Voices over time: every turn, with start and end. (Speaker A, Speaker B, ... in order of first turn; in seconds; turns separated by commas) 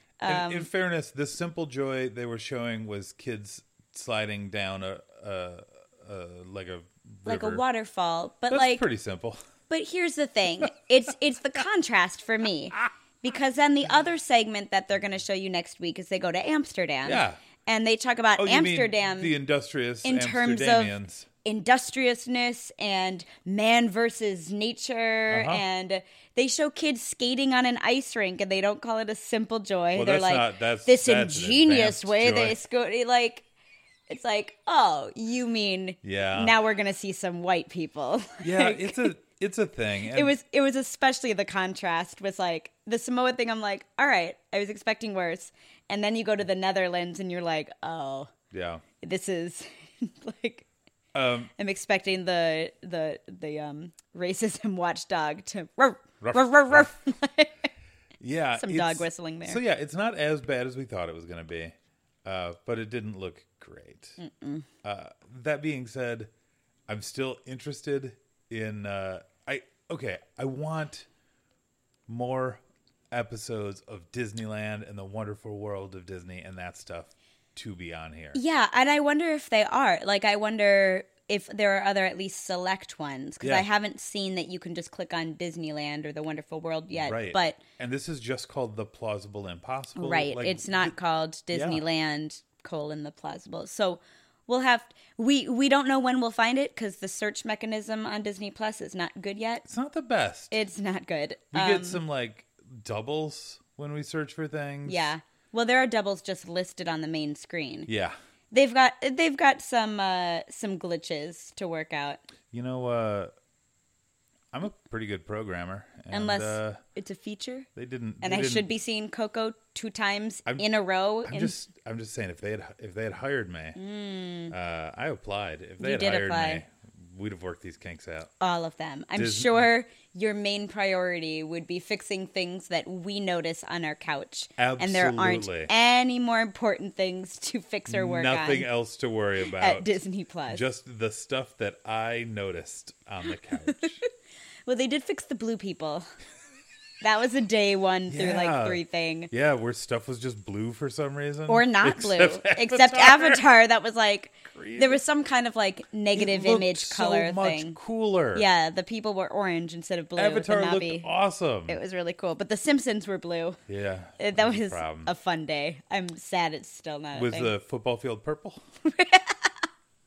Speaker A: 0.2-0.7, Speaker B: 0.2-7.6, Speaker A: 7.2-8.8, Speaker B: 8.5-9.4, Speaker A: 9.7-19.3, Speaker B: 17.0-17.4, Speaker B: 18.4-21.3, Speaker A: 20.0-33.5, Speaker B: 25.3-25.6, Speaker B: 29.9-32.6, Speaker A: 34.1-39.1, Speaker B: 36.0-36.6, Speaker B: 38.4-40.3, Speaker A: 40.1-48.3, Speaker B: 48.5-48.8, Speaker A: 49.0-50.7, Speaker B: 51.1-51.5, Speaker A: 51.5-57.7, Speaker B: 56.2-57.0, Speaker B: 58.2-61.7, Speaker A: 58.6-59.6, Speaker B: 62.2-64.2, Speaker A: 64.2-64.7, Speaker B: 64.8-66.3, Speaker B: 66.9-71.1, Speaker B: 72.1-78.4, Speaker A: 78.3-87.6, Speaker B: 83.4-83.7, Speaker B: 86.9-90.9, Speaker A: 90.0-99.6, Speaker B: 91.5-91.8, Speaker B: 99.7-100.6, Speaker A: 100.5-102.0, Speaker B: 101.5-105.1, Speaker A: 104.8-107.9, Speaker B: 107.9-108.2, Speaker A: 108.5-112.2, Speaker B: 112.5-113.3, Speaker B: 114.5-116.8, Speaker A: 116.1-117.7, Speaker B: 117.8-118.7, Speaker A: 118.2-121.5, Speaker B: 121.2-123.8, Speaker A: 123.8-124.5, Speaker B: 124.5-128.3, Speaker A: 125.8-126.6, Speaker A: 128.4-138.7, Speaker B: 129.2-129.7, Speaker B: 134.6-135.7, Speaker B: 137.9-139.9, Speaker A: 139.4-140.6, Speaker B: 140.5-144.0, Speaker A: 143.6-144.1, Speaker A: 144.7-146.1, Speaker A: 147.0-149.3, Speaker B: 148.1-153.4, Speaker A: 151.5-157.8, Speaker B: 154.5-155.0, Speaker B: 156.1-158.4, Speaker A: 158.3-161.1, Speaker B: 160.2-161.8, Speaker A: 161.7-163.6, Speaker B: 163.7-165.1, Speaker A: 164.2-167.5, Speaker B: 167.1-168.6, Speaker A: 168.8-169.5